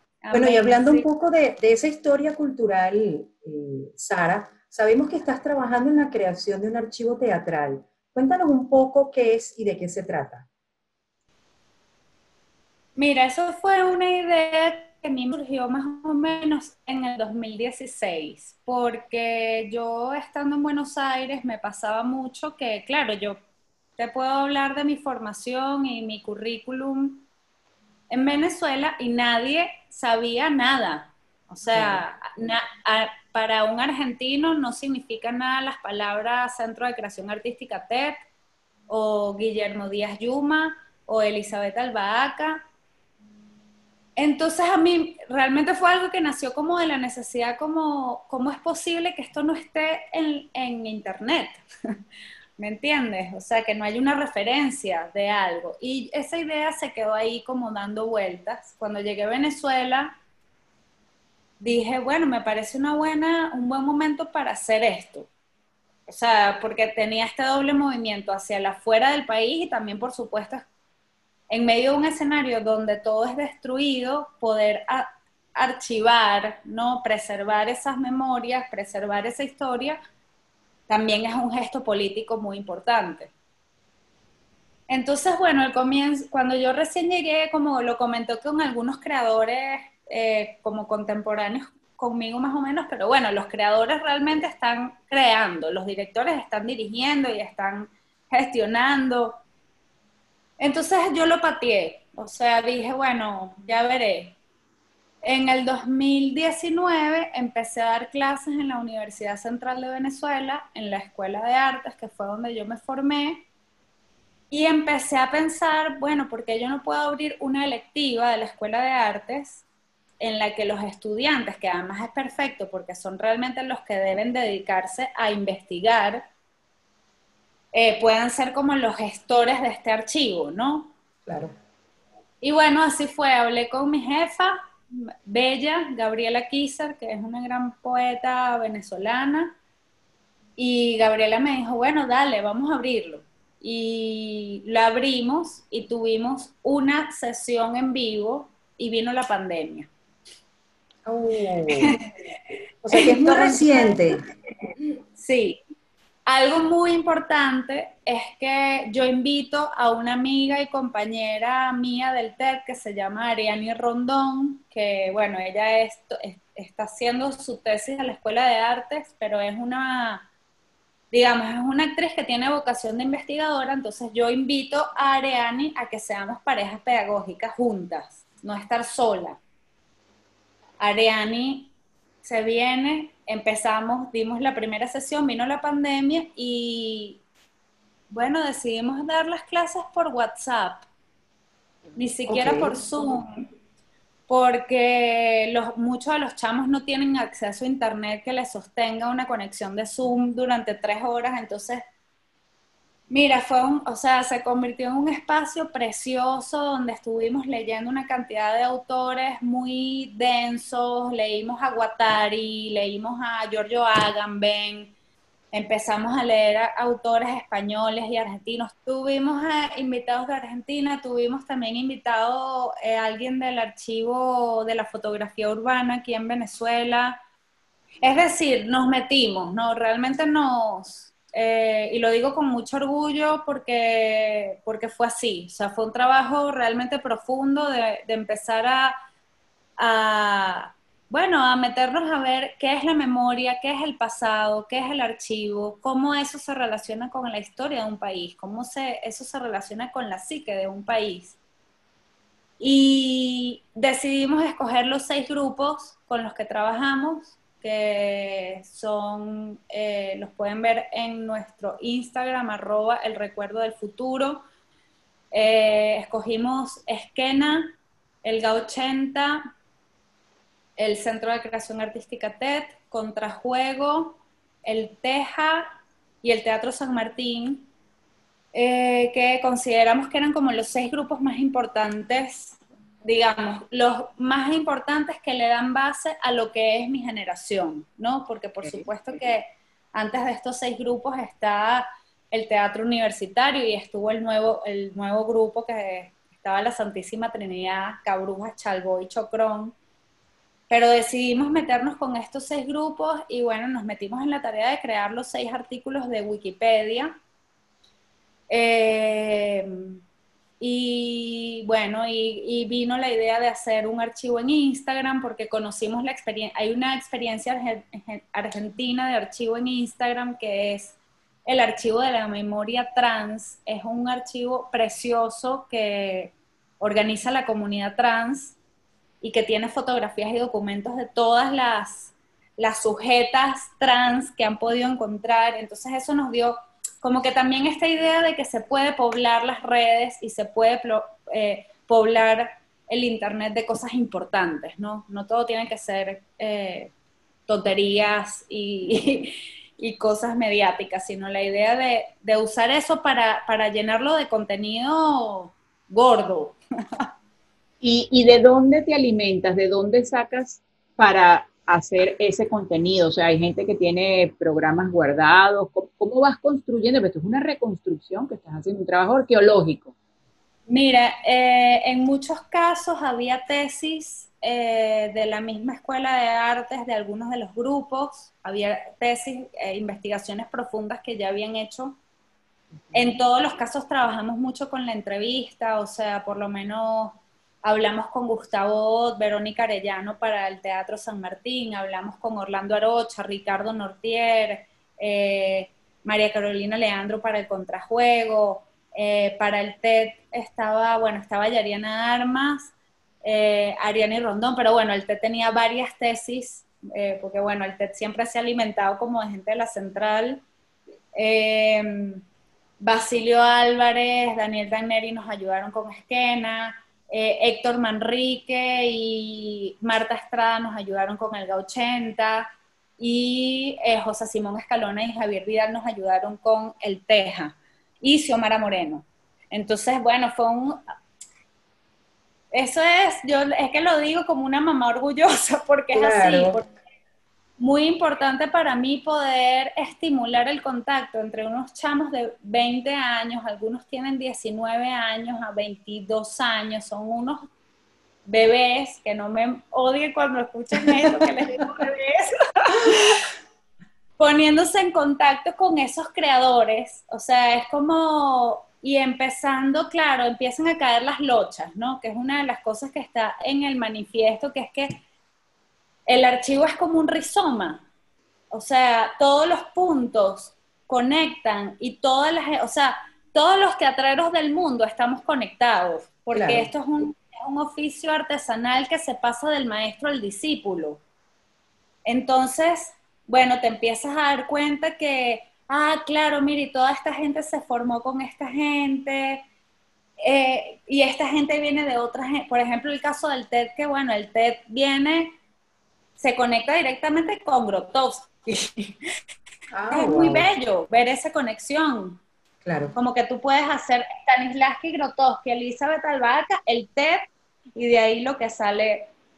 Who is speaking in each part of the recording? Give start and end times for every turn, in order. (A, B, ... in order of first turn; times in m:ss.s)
0:00.2-0:01.1 A
0:00.3-0:10.5 B
0:13.0-0:23.4 A
0:24.0-0:27.3 A
0:28.1-0:38.2 A
0:31.7-0:32.0 B
0:38.9-0:42.6 A
0:44.2-0:51.6 A
0:52.6-1:00.2 A
1:01.6-1:05.3 A
1:06.1-1:10.6 A
1:11.5-1:20.0 A
1:20.9-1:23.3 A
1:24.9-1:39.4 A
1:40.6-1:44.4 A
1:45.2-1:53.4 A
1:54.5-1:59.6 A
2:00.2-2:06.2 A
2:07.7-2:10.9 A
2:11.3-2:11.5 B
2:12.4-2:19.6 A
2:20.6-2:29.9 A
2:31.0-2:32.0 B
2:31.7-2:32.1 A
2:32.8-2:34.2 B
2:32.9-2:34.0 A
2:35.2-2:35.6 A
2:36.3-2:50.3 A
2:51.1-2:59.4 A
3:00.8-3:01.7 A
3:02.2-3:07.2 A
3:08.1-3:10.9 A
3:12.0-3:13.4 A
3:12.3-3:12.8 B
3:14.3-3:21.8 A
3:23.1-3:34.9 A
3:35.5-3:47.2 A
3:48.0-3:59.0 A
3:59.8-4:11.4 A
4:12.6-4:24.4 A
4:25.3-4:29.5 A
4:30.8-4:35.7 A
4:36.2-4:37.7 A
4:38.5-4:59.8 A
5:00.7-5:07.2 A
5:08.5-5:10.0 A
5:10.6-5:28.6 A
5:29.2-5:46.9 A
5:47.5-5:56.6 A
5:57.8-6:09.9 C
6:10.7-6:22.0 A
6:22.7-6:23.1 C
6:22.9-6:42.7 A
6:43.2-6:50.4 A
6:51.2-6:52.2 A
6:52.8-7:02.5 A
7:03.0-7:10.8 A
7:12.5-7:16.7 A
7:15.9-7:16.6 B
7:17.6-7:27.5 A
7:28.3-7:33.2 A
7:34.2-7:45.0 A
7:46.1-7:47.8 A
7:48.5-8:01.0 A
7:56.3-7:56.7 B
8:02.1-8:09.4 A
8:10.2-8:15.3 A
8:16.2-8:19.0 A
8:19.7-8:20.5 B
8:19.9-8:22.2 A
8:22.6-8:22.9 B
8:23.0-8:29.1 A